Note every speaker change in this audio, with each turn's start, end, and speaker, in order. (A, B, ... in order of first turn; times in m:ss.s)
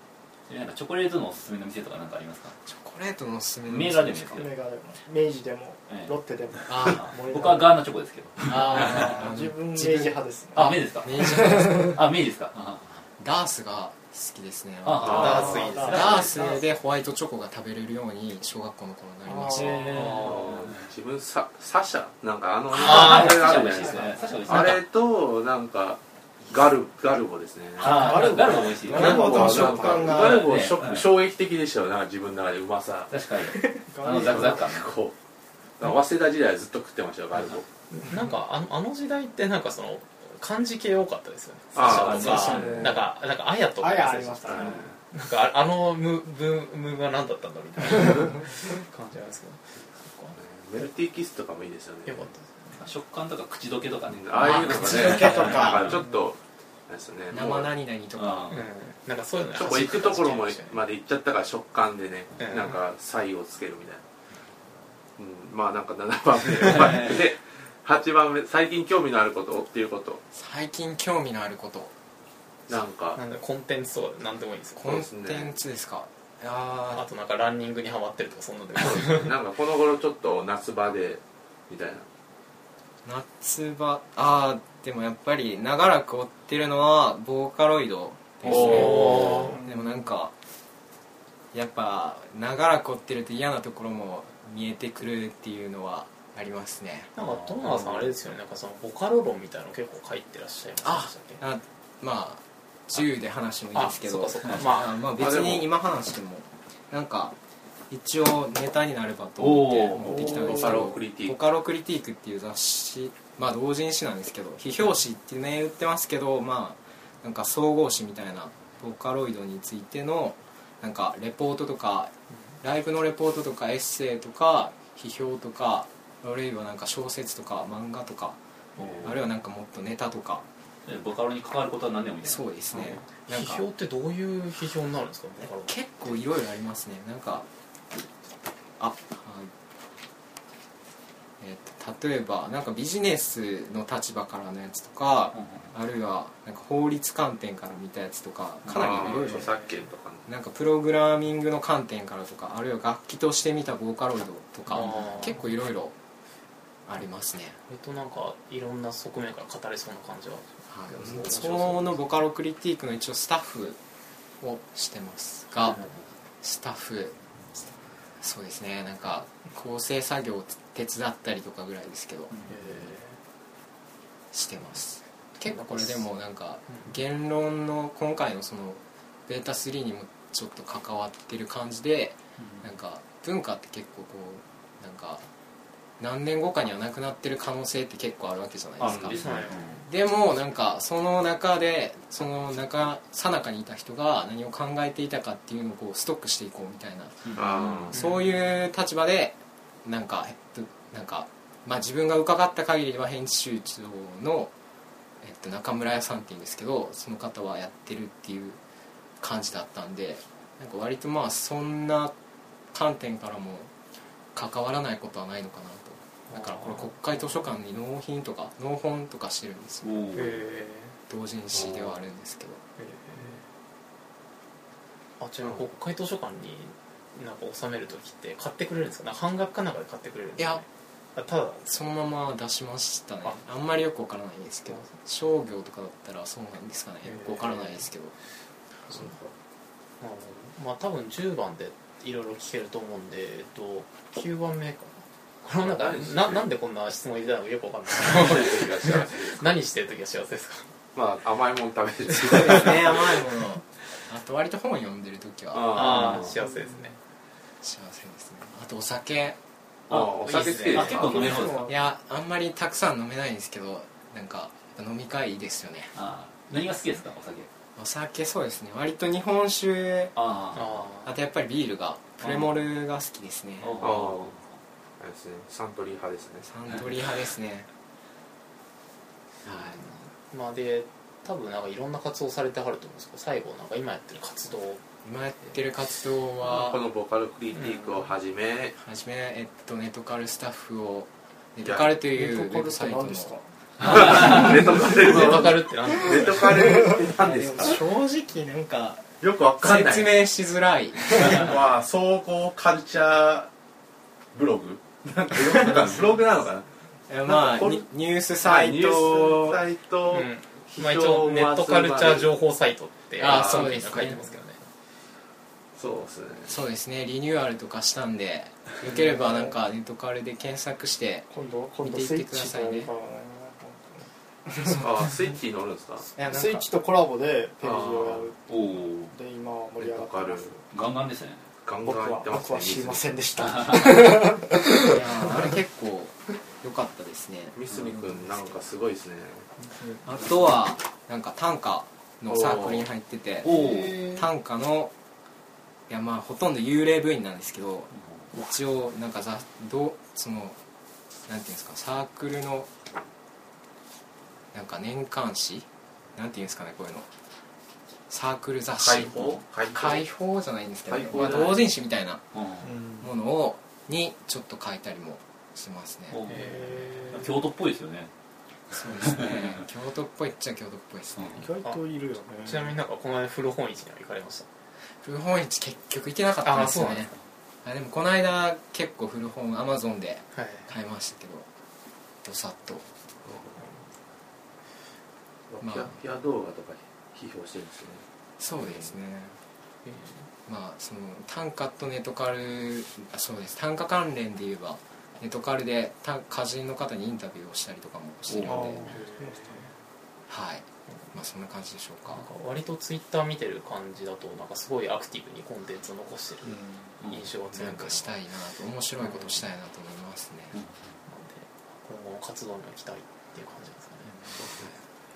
0:00.5-0:02.5 A
0:02.6-0:04.4 B
0:03.6-0:04.5 A
0:04.2-0:07.7 C
0:05.9-0:09.1 A
0:06.7-0:07.0 B
0:08.5-0:12.0 B
0:08.6-0:12.0 C
0:10.5-0:13.1 A
0:13.2-0:20.2 B
0:14.8-0:16.6 A
0:15.0-0:16.1 D
0:15.2-0:16.4 C
0:19.2-0:20.2 C
0:19.5-0:20.9 A
0:20.1-0:33.1 E
0:22.7-0:24.9 A
0:23.0-0:24.6 C
0:27.8-0:30.0 C
0:27.8-0:31.1 A
0:28.8-0:30.5 B
0:33.1-0:34.9 A
0:33.4-0:34.7 C
0:34.2-0:35.1 E
0:35.8-0:37.6 E
0:37.9-0:50.4 D
0:41.7-0:42.7 E
0:41.8-0:43.0 A
0:42.2-0:43.0 C
0:43.8-0:45.0 C
0:44.5-0:45.0 E
0:50.4-0:52.3 E
0:52.0-0:52.8 D
0:52.7-0:55.9 A
0:54.1-0:57.7 E
0:54.4-0:55.9 B
0:57.3-0:58.6 B
0:58.1-0:58.6 A
0:58.5-1:00.8 D
0:59.5-1:04.0 E
1:02.4-1:02.8 D
1:05.2-1:10.2 E
1:06.6-1:07.2 A
1:10.3-1:11.9 B
1:12.7-1:13.2 E
1:13.1-1:14.8 D
1:14.8-1:17.1 B
1:14.8-1:15.5 E
1:16.9-1:19.3 D
1:18.8-1:22.0 E
1:23.0-1:30.3 B
1:28.4-1:29.5 D
1:28.5-1:28.8 E
1:29.5-1:30.1 C
1:31.5-1:37.2 B
1:37.1-1:41.4 D
1:37.2-1:38.1 A
1:40.8-1:47.3 B
1:43.7-1:45.0 D
1:45.2-1:45.7 E
1:47.9-2:08.4 B
1:49.4-1:50.5 A
1:50.0-1:51.4 E
2:08.8-2:09.1 A
2:08.9-2:10.4 B
2:10.8-2:12.9 A
2:12.2-2:13.6 B
2:12.7-2:16.2 D
2:15.4-2:17.5 B
2:18.8-2:19.5 B
2:21.4-2:29.5 B
2:25.3-2:25.7 A
2:28.6-2:29.0 A
2:28.7-2:30.3 E
2:29.0-2:29.8 D
2:30.3-2:35.9 B
2:34.7-2:35.4 D
2:36.8-2:37.6 B
2:37.7-2:42.0 D
2:40.7-2:43.8 B
2:44.4-2:45.8 B
2:45.5-2:46.1 D
2:46.4-2:47.2 B
2:48.2-2:52.4 B
2:52.5-2:53.2 D
2:54.3-3:05.3 B
2:55.5-2:56.1 D
3:02.4-3:02.7 A
3:06.0-3:24.5 B
3:08.8-3:09.8 A
3:08.8-3:09.1 E
3:09.2-3:09.9 D
3:17.2-3:17.9 A
3:17.4-3:18.0 E
3:17.9-3:18.2 D
3:25.2-3:28.6 B
3:29.2-3:32.1 B
3:32.7-3:33.7 B
3:34.3-3:40.3 B
3:36.3-3:37.5 D
3:39.8-3:40.3 A
3:40.1-3:41.0 D
3:41.1-3:42.6 B
3:41.5-3:42.0 E
3:42.8-3:43.4 D
3:45.2-3:51.6 D
3:50.4-3:50.6 B
3:51.6-3:58.1 B
3:57.0-3:57.8 D
3:58.9-3:59.1 D
3:58.9-3:59.3 E
4:00.0-4:10.7 D
4:05.5-4:06.5 E
4:08.0-4:09.5 E
4:10.9-4:13.2 E
4:12.2-4:16.2 B
4:15.5-4:16.4 E
4:15.7-4:17.0 D
4:16.3-4:16.8 C
4:17.6-4:19.4 B
4:19.9-4:21.7 A
4:19.9-4:21.2 E
4:20.2-4:21.4 D
4:21.0-4:21.9 C
4:21.7-4:25.9 B
4:25.9-4:27.5 A
4:27.8-4:30.2 B
4:30.2-4:30.7 A
4:30.5-4:31.1 D
4:31.0-4:33.9 B
4:32.2-4:32.5 D
4:33.6-4:34.5 A
4:33.8-4:34.4 E
4:35.0-4:36.5 E
4:36.4-4:37.7 B
4:39.4-4:39.8 B
4:39.5-4:44.8 D
4:45.0-4:46.8 B
4:46.4-4:48.7 E
4:47.5-4:48.0 D
4:48.8-4:53.3 B
4:51.6-4:52.0 E
4:52.0-4:55.2 C
4:53.8-4:57.8 E
4:54.1-4:56.7 D
4:55.9-4:57.8 C
4:57.3-5:01.5 B
4:59.2-5:00.2 E
5:01.0-5:03.5 E
5:04.3-5:06.6 E
5:07.1-5:09.5 B
5:07.2-5:07.8 E
5:08.4-5:12.3 E
5:09.0-5:09.5 C
5:10.1-5:14.6 D
5:13.2-5:14.2 B
5:13.2-5:13.8 E
5:15.8-5:16.6 E
5:16.5-5:21.3 B
5:18.8-5:19.6 C
5:21.3-5:24.8 C
5:21.8-5:22.9 B
5:24.7-5:26.1 E
5:26.1-5:28.4 C
5:26.2-5:26.6 B
5:27.6-5:28.3 E
5:28.5-5:29.1 A
5:29.0-5:30.6 C
5:29.8-5:30.5 E
5:30.7-5:31.5 A
5:31.6-5:33.1 E
5:31.8-5:35.4 C
5:33.4-5:33.8 A
5:34.8-5:38.7 B
5:37.5-5:39.5 E
5:40.0-5:44.9 B
5:42.3-5:42.9 E
5:43.4-5:44.1 A
5:45.9-5:50.6 B
5:47.9-5:48.3 A
5:51.2-5:52.7 B
5:54.5-5:57.1 B
5:58.1-6:02.2 B
5:58.8-6:00.0 E
6:00.9-6:01.6 E
6:02.3-6:02.8 A
6:02.6-6:03.1 C
6:03.0-6:06.2 B
6:06.1-6:08.1 A
6:06.3-6:07.3 D
6:08.7-6:09.6 A
6:08.7-6:11.5 B
6:11.1-6:11.4 A
6:11.3-6:12.8 C
6:12.4-6:14.4 D
6:15.0-6:21.5 B
6:16.4-6:17.1 D
6:20.3-6:20.7 D
6:22.2-6:22.9 B
6:23.2-6:23.7 E
6:25.5-6:28.0 E
6:25.6-6:26.0 B
6:28.4-6:29.4 B
6:28.6-6:28.9 E
6:29.8-6:30.3 D
6:30.4-6:38.9 B
6:38.3-6:38.6 A
6:38.4-6:39.8 C
6:38.7-6:39.7 D
6:40.3-6:42.3 B
6:42.1-6:48.1 D
6:46.4-6:46.8 C
6:47.0-6:47.3 A
6:47.5-6:50.6 B
6:49.0-6:49.5 D
6:50.5-6:50.9 A
6:51.0-6:54.2 D
6:54.4-6:54.7 E